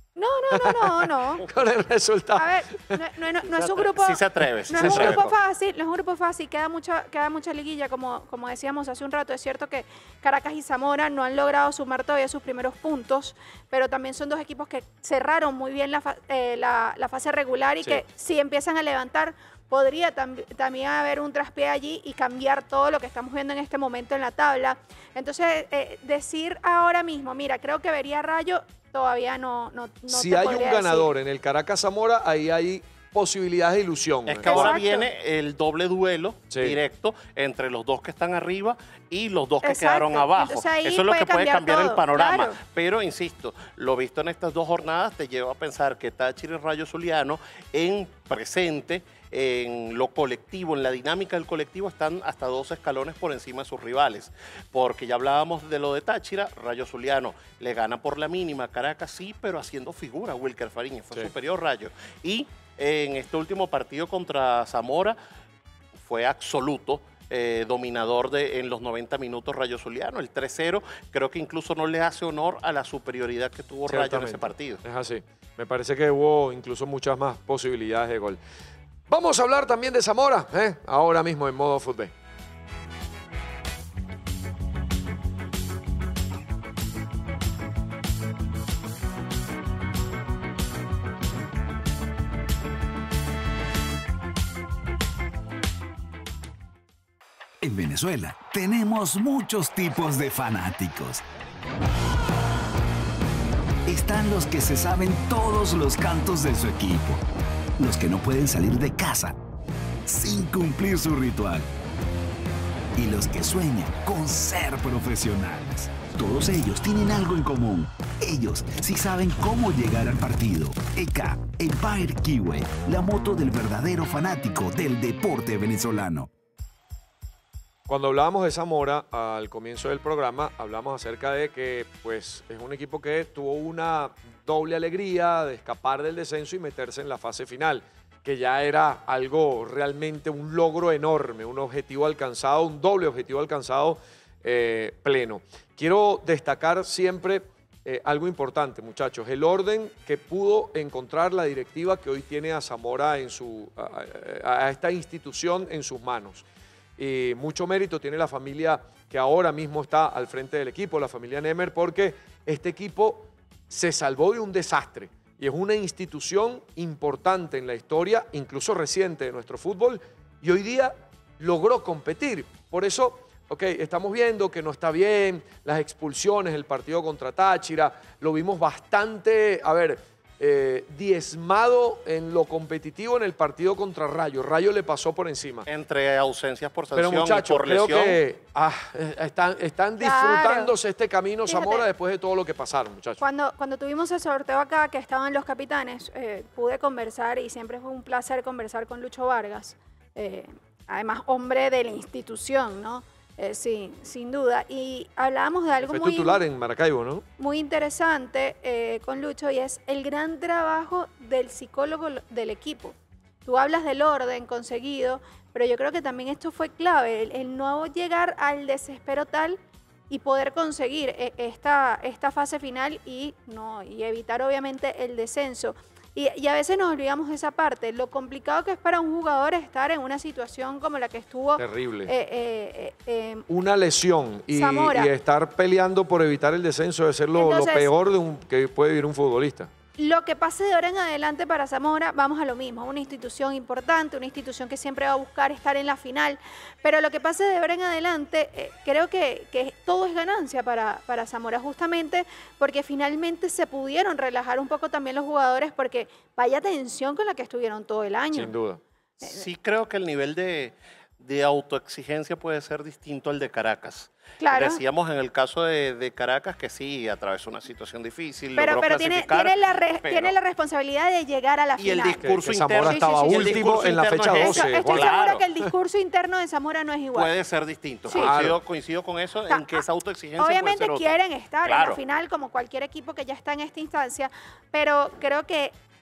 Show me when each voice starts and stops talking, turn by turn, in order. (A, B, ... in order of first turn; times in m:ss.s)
0:00.2-0:01.5 A
0:00.5-0:03.0 B
0:02.4-0:31.1 A
0:03.4-0:05.3 C
0:04.8-0:05.2 B
0:30.1-0:34.8 B
0:34.3-1:05.2 C
0:34.4-0:35.1 A
0:36.5-0:36.8 B
0:39.6-0:42.6 A
1:06.0-1:14.8 C
1:13.9-1:18.4 B
1:19.1-1:22.1 B
1:37.6-1:41.2 D
1:43.9-1:47.2 D
1:47.8-1:49.4 D
1:50.1-1:51.7 D
1:53.0-2:06.3 D
2:07.9-2:36.4 B
2:37.0-3:05.7 B
3:05.7-3:08.2 C
3:06.9-3:13.2 B
3:10.0-3:10.7 A
3:11.5-3:11.9 A
3:13.2-3:26.4 A
3:25.8-3:27.2 B
3:27.4-3:39.6 A
3:40.1-3:53.4 A
3:51.6-3:52.1 B
3:53.5-3:59.7 B
3:54.5-3:55.1 A
3:57.4-3:57.9 A
4:00.0-4:18.5 A
4:18.3-4:18.8 B
4:19.2-4:30.4 C
4:24.4-4:24.8 A
4:28.6-4:32.2 A
4:31.8-4:35.4 C
4:32.2-4:35.1 B
4:32.8-4:33.7 A
4:34.4-4:37.3 A
4:37.1-4:42.0 C
4:38.1-4:38.6 B
4:39.5-4:39.8 A
4:40.4-4:45.7 A